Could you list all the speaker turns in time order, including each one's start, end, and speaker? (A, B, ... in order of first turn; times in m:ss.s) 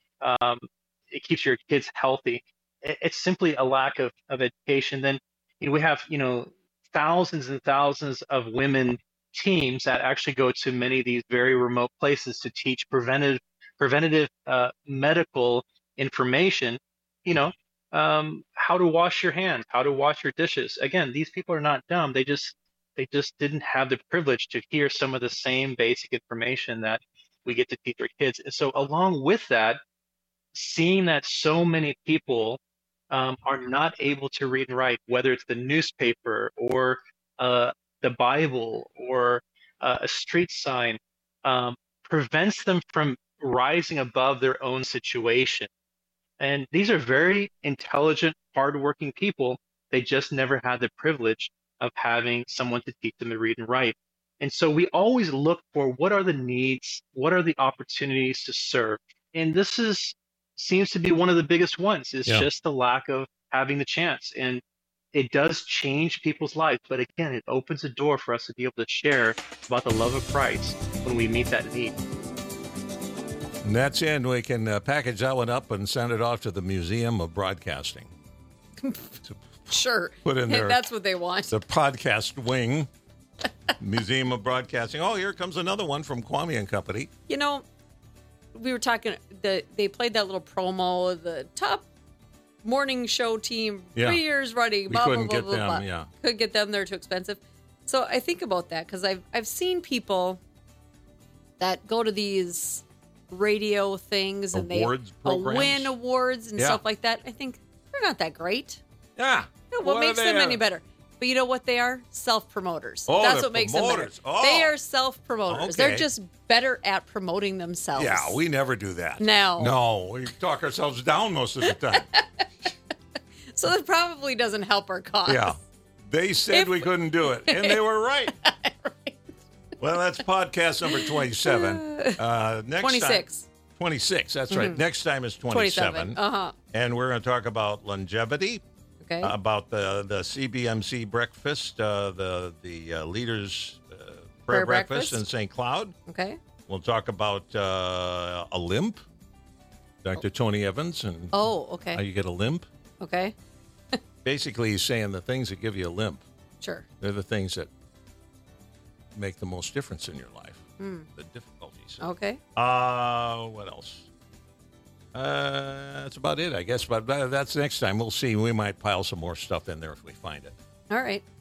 0:00.2-0:29.8 A
0:30.5-0:32.6 A
0:33.1-0:45.7 A
0:46.4-1:04.6 A
1:05.1-1:11.9 A
1:13.6-1:18.1 B
1:18.8-1:19.1 C
1:19.7-1:21.5 C
1:20.2-1:20.8 B
1:21.5-1:22.9 B
1:23.8-1:27.1 B
1:27.3-1:27.6 C
1:28.5-1:31.9 C
1:32.6-1:40.4 C
1:34.0-1:34.2 B
1:34.9-1:36.1 B
1:41.6-1:48.8 C
1:44.5-1:45.9 B
1:46.6-1:46.8 B
1:49.2-1:50.6 B
1:49.7-1:58.4 C
1:53.1-1:54.7 B
1:55.5-1:56.1 B
1:58.0-2:02.1 B
1:59.2-1:59.8 C
2:01.9-2:02.4 C
2:03.5-2:05.6 C
2:05.2-2:08.3 B
2:06.5-2:07.8 C
2:08.3-2:09.2 C
2:09.8-2:16.2 B
2:10.9-2:12.2 C
2:12.8-2:13.4 C
2:14.5-2:14.8 C
2:15.5-2:16.5 C
2:16.7-2:18.6 B
2:19.0-2:19.3 C
2:19.2-2:25.9 B
2:24.5-2:25.2 C
2:26.1-2:26.4 C
2:26.7-2:29.0 B
2:30.0-2:32.7 B
2:31.3-2:32.0 C
2:33.0-2:33.3 C
2:34.2-2:36.2 B
2:36.6-2:36.9 C
2:37.0-2:37.7 B
2:39.1-2:40.6 B
2:40.8-2:41.1 C
2:41.1-2:42.0 B
2:42.0-2:42.4 C
2:42.6-2:44.1 B
2:45.1-2:50.5 B
2:50.9-2:51.2 C